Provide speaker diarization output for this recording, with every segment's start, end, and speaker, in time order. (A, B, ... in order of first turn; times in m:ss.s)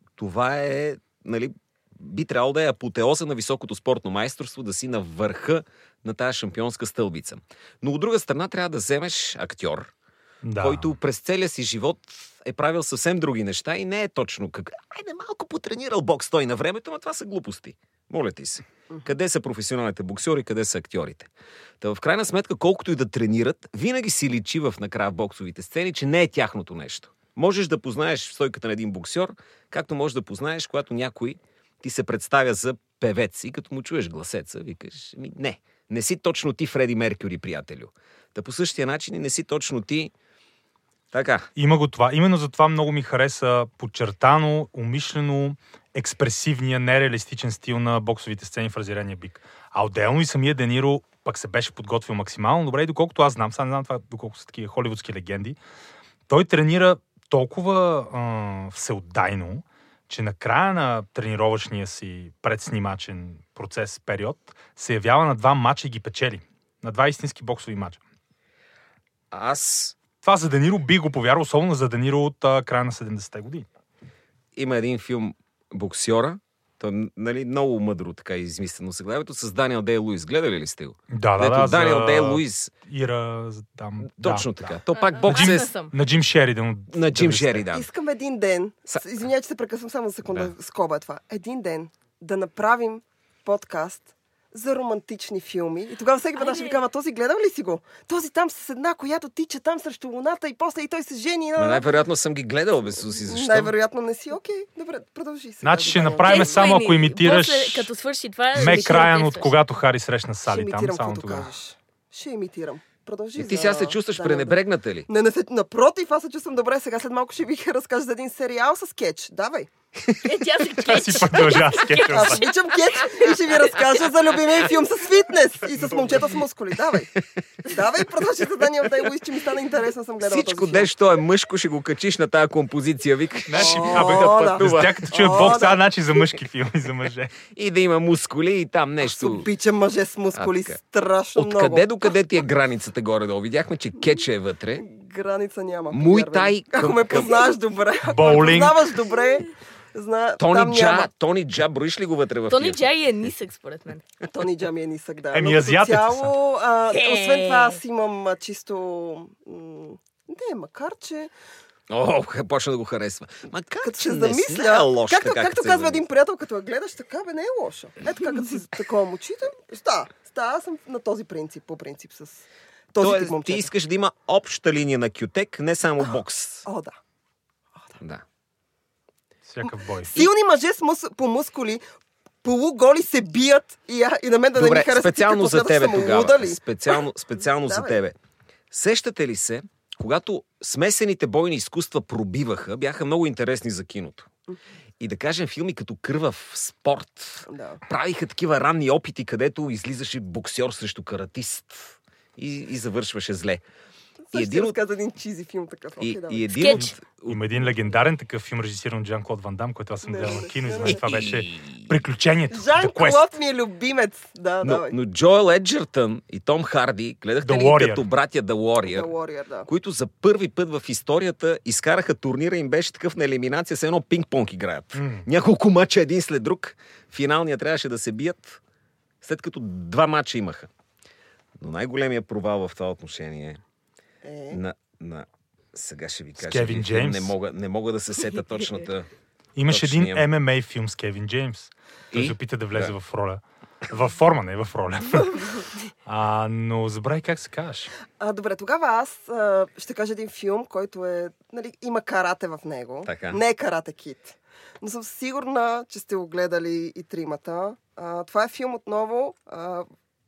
0:00.2-0:09.9 A
0:10.4-0:10.9 B
0:10.6-0:21.3 A
0:21.8-0:40.1 A
0:41.1-0:41.5 A
0:41.6-0:55.6 B
0:56.3-1:08.0 B
1:09.3-1:10.0 A
1:10.2-1:13.6 B
1:14.6-1:22.7 A
1:21.1-1:24.7 B
1:24.0-1:25.7 A
1:24.9-1:25.9 C
1:25.2-1:27.7 B
1:26.9-1:27.9 A
1:27.7-1:41.8 D
1:36.4-1:36.8 C
1:41.6-1:43.7 A
1:43.2-1:46.7 D
1:45.6-1:47.9 B
1:46.2-1:49.5 C
1:48.5-1:51.5 B
1:48.6-1:49.0 D
1:50.5-1:59.7 D
1:53.4-1:55.1 A
2:00.2-2:02.5 C
2:00.8-2:02.5 B
2:02.0-2:10.9 D
2:03.0-2:03.8 C
2:10.2-2:15.6 A
2:13.5-2:17.4 B
2:13.5-2:15.8 D
2:17.5-2:19.5 A
2:19.0-2:22.2 D
2:20.4-2:20.7 A
2:21.4-2:24.8 A
2:24.8-2:31.1 D
2:25.9-2:27.5 A
2:28.0-2:28.9 B
2:30.4-2:33.3 A
2:32.5-2:34.0 C
2:34.3-2:41.3 D
2:35.3-2:36.3 B
2:36.9-2:37.8 C
2:41.9-2:46.0 A
2:43.8-2:53.7 D
2:53.0-2:56.6 A
2:56.6-2:57.0 D
2:58.0-2:58.2 A
2:59.5-3:00.3 B
2:59.6-3:01.8 D
3:02.4-3:07.0 D
3:04.6-3:08.2 A
3:07.6-3:08.0 D
3:08.7-3:14.3 A
3:15.0-3:23.6 A
3:17.4-3:17.8 D
3:24.2-3:26.5 D
3:24.3-3:24.7 A
3:26.0-3:27.7 A
3:26.5-3:26.9 C
3:26.7-3:33.3 B
3:30.0-3:31.0 D
3:30.8-3:31.9 A
3:32.5-3:35.0 D
3:34.6-3:39.1 A
3:37.4-3:38.0 B
3:38.8-3:39.7 D
3:39.7-3:48.6 A
3:44.9-3:45.3 B
3:49.2-3:50.7 A
3:51.6-3:53.6 A
3:54.2-3:54.6 D
3:54.5-3:59.1 A
3:56.4-3:57.3 B
3:59.6-4:07.9 B
3:59.7-4:00.3 A
4:02.1-4:02.9 A
4:08.2-4:19.9 D
4:13.0-4:13.4 A